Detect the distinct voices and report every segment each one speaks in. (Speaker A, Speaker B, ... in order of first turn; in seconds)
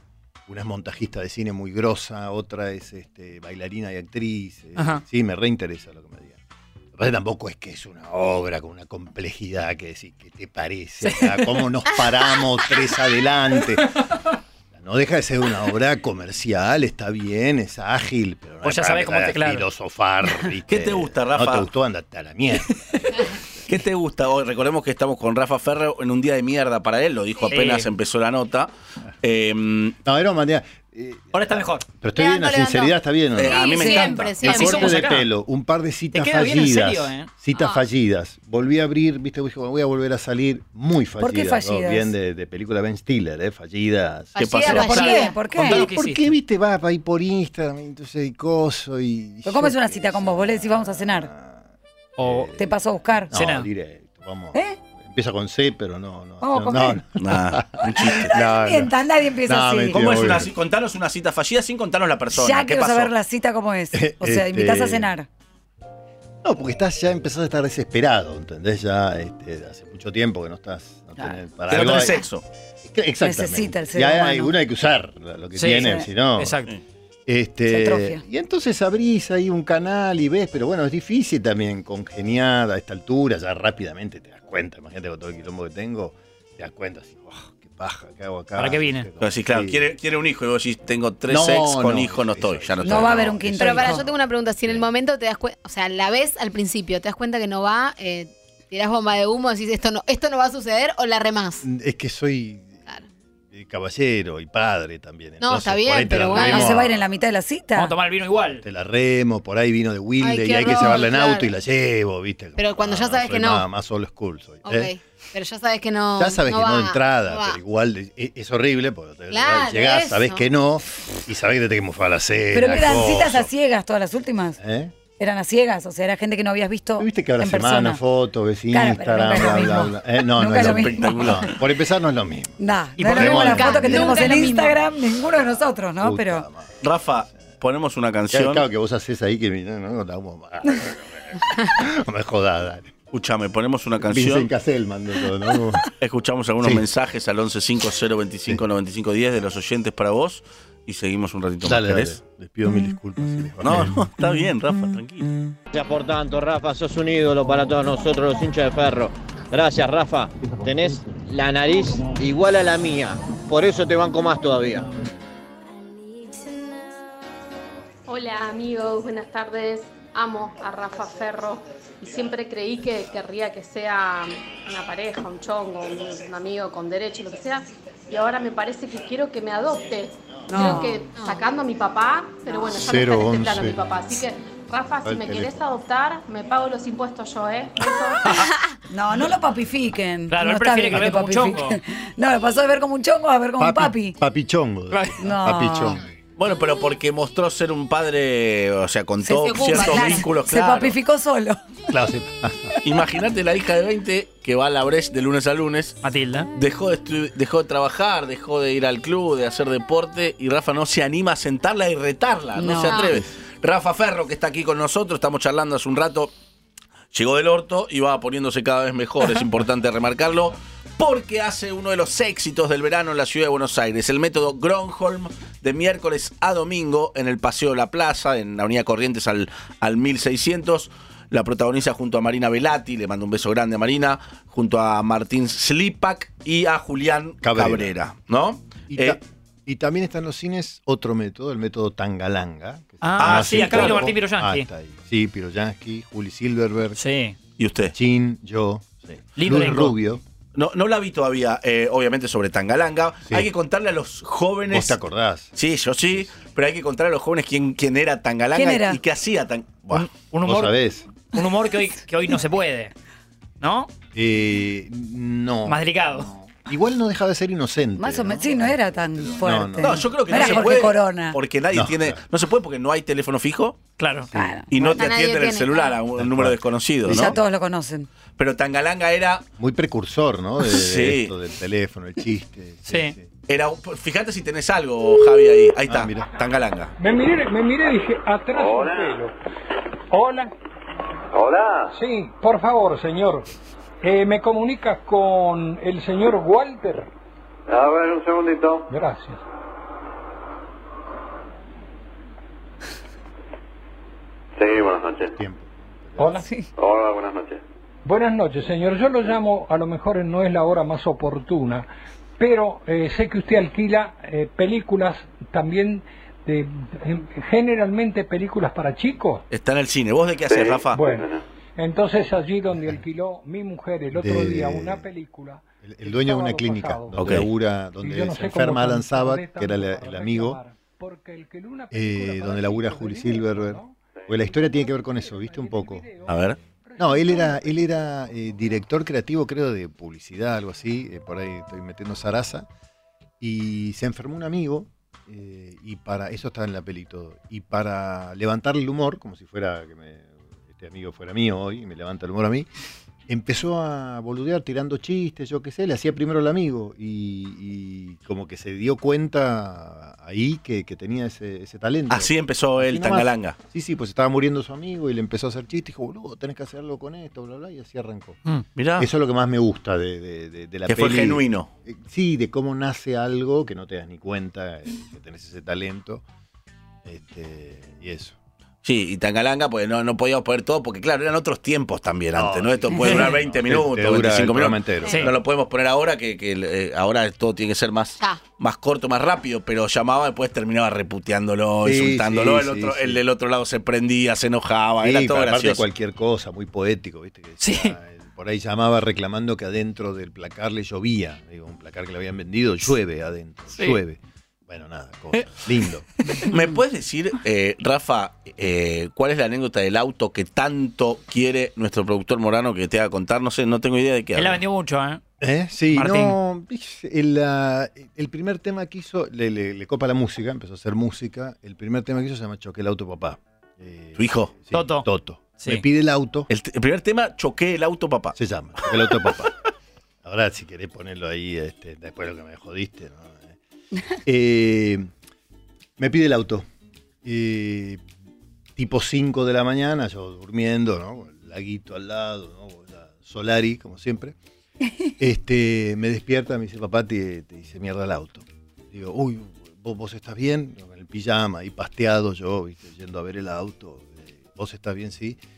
Speaker A: 0.5-6.4, 6.9-13.9, 14.7-23.4, 30.1-33.9, 34.4-44.4, 45.6-51.6, 52.2-52.7, 53.3-60.5, 63.9-65.1, 66.4-72.2, 72.8-76.6, 77.3-89.9, 91.3-94.9, 101.6-102.8, 103.5-107.0, 108.6-114.9, 116.2-123.5, 124.6-124.9, 127.0-134.5, 136.0-136.7, 138.3-142.9, 144.0-145.9, 146.6-146.9, 151.6-154.1, 182.7-183.8, 185.0-185.6, 193.6-196.0, 201.9-202.7, 237.4-237.9, 238.9-247.0, 247.9-250.2, 254.7-255.6, 260.4-261.1, 264.1-270.2, 271.7-272.2, 274.2-274.6, 276.1-277.4, 279.6-283.3, 285.9-286.3, 304.7-306.4, 322.7-323.0, 324.1-325.1, 325.8-330.6, 331.9-336.4, 337.0-342.7, 343.4-352.7, 353.3-368.4, 369.0-376.2, 377.1-378.4, 382.4-385.3, 391.8-393.2, 395.0-406.1, 415.4-426.5, 428.4-429.6, 430.2-433.6, 434.2-435.1, 436.0-436.6, 437.2-438.0, 438.8-444.4, 445.2-455.4
Speaker B: 4.8-5.0, 18.6-19.6, 27.5-27.9, 31.3-31.9, 34.4-35.3, 36.1-37.3, 44.8-46.3, 52.2-52.5, 53.3-53.7, 75.6-76.7, 88.6-89.1, 107.8-108.6, 190.3-191.8, 194.9-195.2, 206.0-206.5, 243.0-244.7, 247.0-247.4, 249.4-249.9, 259.9-260.7, 261.3-262.9, 263.6-263.9, 265.6-266.3, 274.0-274.3, 282.9-283.1, 397.6-397.9, 414.4-415.2, 415.9-416.4, 424.7-425.1
Speaker C: 20.7-21.7, 23.7-28.7, 29.2-29.9, 33.4-34.8, 44.4-45.2, 57.2-58.3, 59.9-63.1, 71.7-72.4, 89.2-93.4, 130.5-131.6, 136.8-138.7, 143.1-144.5, 146.0-152.2, 153.6-155.3, 196.4-200.9, 202.8-206.0, 206.6-216.3, 217.1-239.2, 243.2-244.1, 247.6-247.9, 250.6-255.0, 255.6-260.1, 269.8-273.8, 274.7-277.4, 278.4-279.4, 280.6-281.3, 283.5-286.9, 319.5-321.0, 327.2-327.5, 336.3-336.6, 362.1-363.6, 368.8-369.1, 370.9-371.7, 378.8-395.8, 406.4-414.6, 424.2-424.5, 426.5-428.4
Speaker D: 32.1-35.0, 37.6-37.8, 44.4-45.4, 93.6-101.6, 105.4-106.8, 110.2-111.5, 112.6-113.6, 114.6-117.6, 119.3-120.4, 133.1-134.8, 181.1-181.4, 188.3-188.7, 199.3-200.3, 212.9-213.1, 274.8-276.0
Speaker E: 33.8-34.1, 41.2-42.1, 44.9-45.9, 49.4-51.3, 52.5-53.3, 56.4-57.0, 58.1-60.0, 62.3-65.3, 73.2-74.5, 75.6-76.1, 77.7-78.2, 92.8-94.0, 106.3-107.9, 122.5-124.6, 125.2-128.0, 128.7-131.4, 132.6-136.5, 180.5-181.1, 188.9-194.2, 195.2-196.0, 199.3-201.6, 212.6-213.1, 258.6-259.0, 268.0-271.4, 274.3-274.7, 277.1-278.1, 306.4-306.7
Speaker F: 155.7-164.9
Speaker G: 168.1-188.4
Speaker H: 287.0-289.3, 290.1-290.5, 291.9-293.5, 294.0-297.1, 298.9-299.4, 306.2-306.5, 308.1-311.9, 312.4-319.4, 320.9-327.4, 328.0-338.6
Speaker I: 288.5-289.2, 291.3-291.9, 297.7-298.9, 304.6-305.3, 306.8-307.6, 320.5-321.4